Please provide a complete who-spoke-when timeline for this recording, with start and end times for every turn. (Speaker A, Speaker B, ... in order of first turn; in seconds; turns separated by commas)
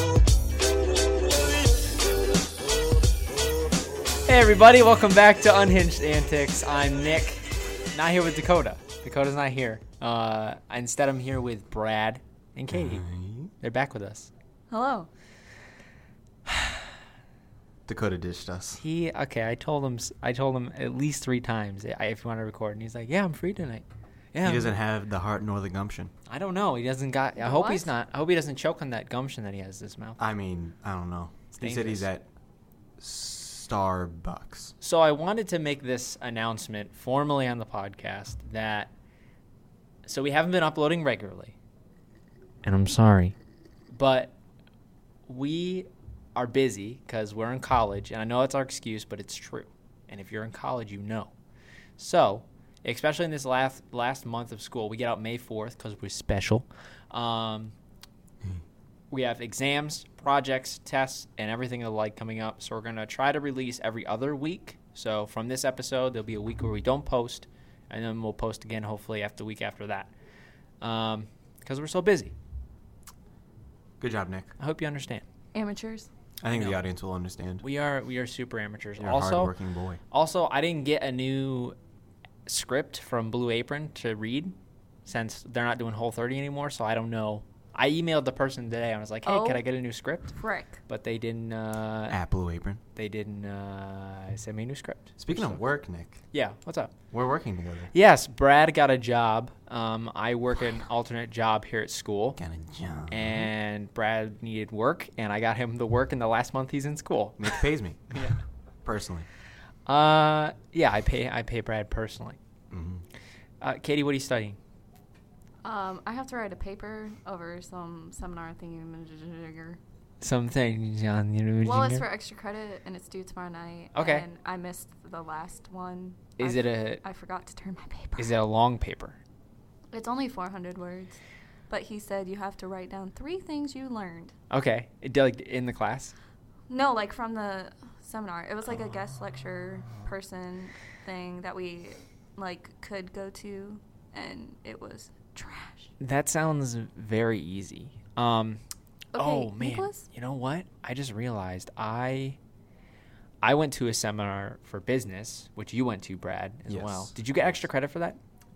Speaker A: 4.3-13.1, Speaker B: 12.7-13.5, Speaker A: 13.6-14.3, Speaker C: 14.7-15.1, Speaker B: 17.9-18.8, Speaker A: 18.8-24.7, Speaker B: 24.4-26.1, Speaker A: 26.3-30.2, Speaker C: 27.4-27.9, Speaker B: 30.2-32.3, Speaker A: 31.6-32.1, Speaker B: 33.0-34.7, Speaker A: 34.8-38.9, Speaker A: 40.1-41.5, Speaker A: 42.6-43.4, Speaker A: 43.9-44.3, Speaker A: 45.3-51.3, Speaker A: 52.0-57.7, Speaker A: 59.1-70.1, Speaker A: 70.8-72.3, Speaker B: 74.0-74.5, Speaker A: 74.6-75.2, Speaker C: 75.5-76.1, Speaker B: 76.4-77.6, Speaker A: 76.5-76.8, Speaker A: 77.6-79.5, Speaker B: 79.0-80.0, Speaker A: 80.1-81.8, Speaker A: 82.5-92.2, Speaker C: 89.2-89.6, Speaker C: 90.4-90.8, Speaker B: 92.1-92.8, Speaker A: 93.0-95.7, Speaker B: 95.2-96.2, Speaker A: 96.3-96.9, Speaker B: 97.1-97.9, Speaker A: 97.9-102.4, Speaker B: 102.4-103.5, Speaker A: 103.1-107.5, Speaker B: 107.4-108.3, Speaker B: 108.8-109.3, Speaker A: 109.9-112.4, Speaker B: 112.7-113.0, Speaker A: 113.6-114.6, Speaker C: 115.6-119.8, Speaker A: 120.2-122.0, Speaker C: 121.6-128.4, Speaker A: 124.0-124.2, Speaker A: 126.4-127.0, Speaker A: 128.2-129.2, Speaker C: 129.9-131.2, Speaker C: 131.7-134.3, Speaker A: 134.5-136.1, Speaker C: 136.7-145.9, Speaker A: 146.0-148.6, Speaker C: 149.1-150.1, Speaker A: 149.2-152.4, Speaker A: 153.4-158.2, Speaker B: 156.7-157.5